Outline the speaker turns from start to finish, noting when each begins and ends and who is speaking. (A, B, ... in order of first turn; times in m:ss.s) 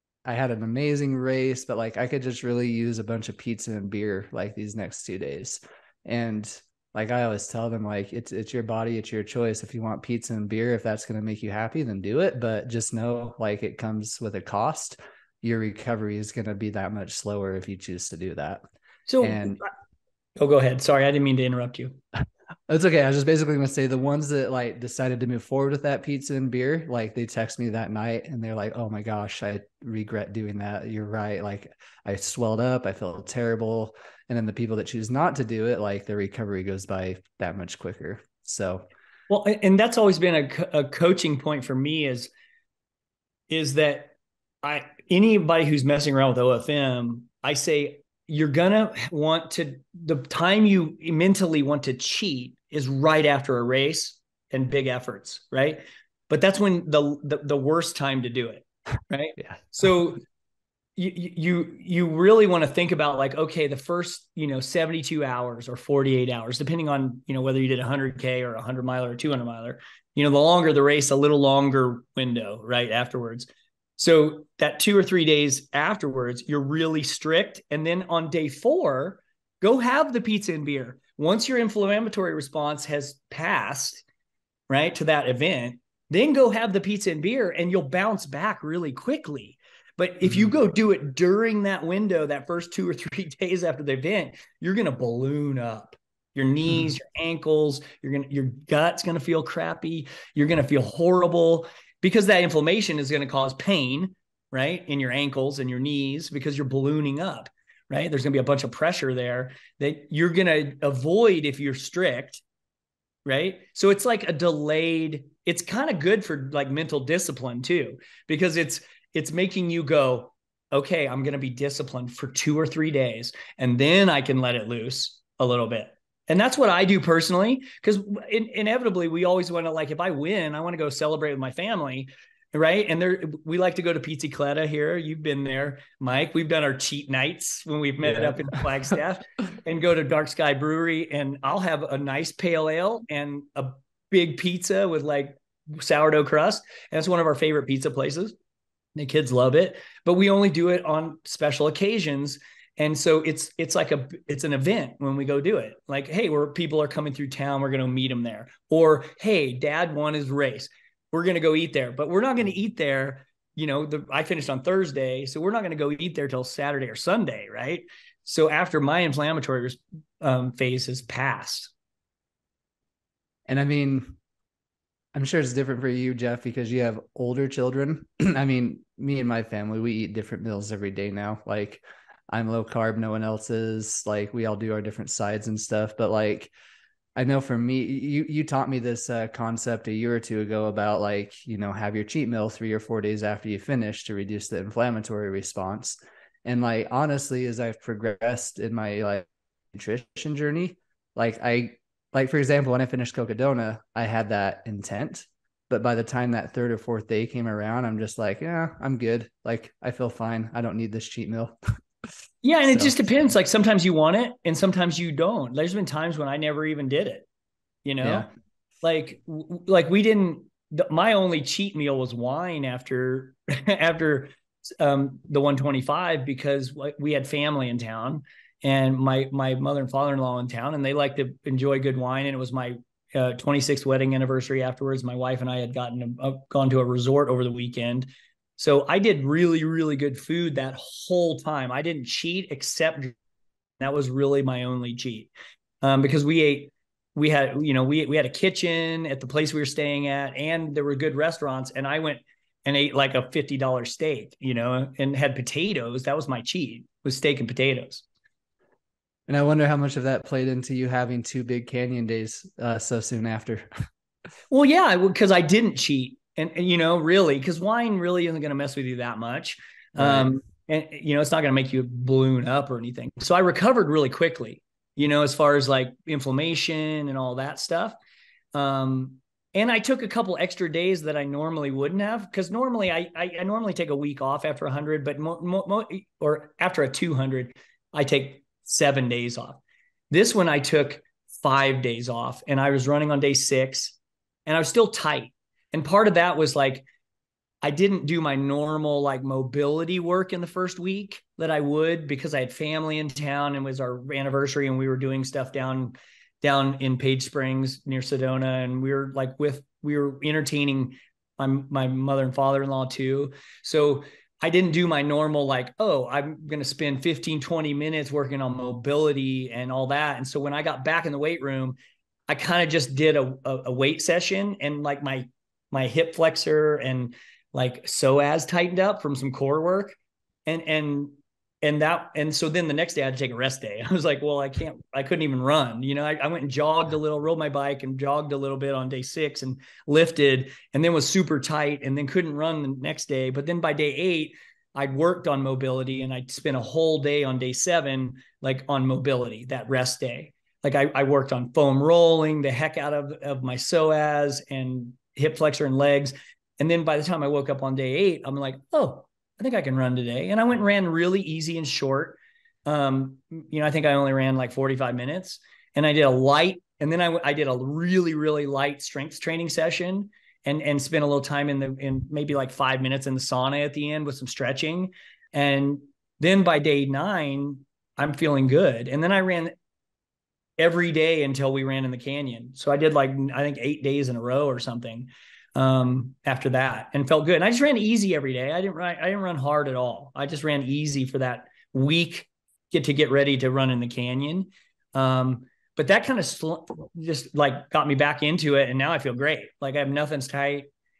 0:00.3-0:18.6 A
0:19.1-0:19.7 B
0:19.2-0:19.6 A
0:20.4-0:22.0 B
0:22.7-0:38.9 A
0:39.3-0:42.3 B
0:43.5-1:00.2 B
0:59.4-0:59.9 A
1:01.0-1:24.0 B
1:24.7-1:52.4 B
1:30.2-1:30.5 A
1:53.3-2:28.3 B
2:18.0-2:18.4 A
2:29.0-2:51.7 B
2:53.5-2:54.2 A
2:55.1-3:06.5 A
3:07.2-3:31.6 A
3:32.4-3:37.3 B
3:32.6-3:33.1 A
3:37.8-3:38.3 B
3:38.0-3:38.3 A
3:38.8-4:03.2 B
4:03.8-4:18.0 B
4:19.3-4:23.7 A
4:24.5-4:38.0 B
4:30.0-4:30.4 A
4:38.5-4:49.6 B
4:50.1-4:56.9 B
4:57.6-5:21.8 B
5:22.3-6:19.6 B
6:20.6-6:40.7 B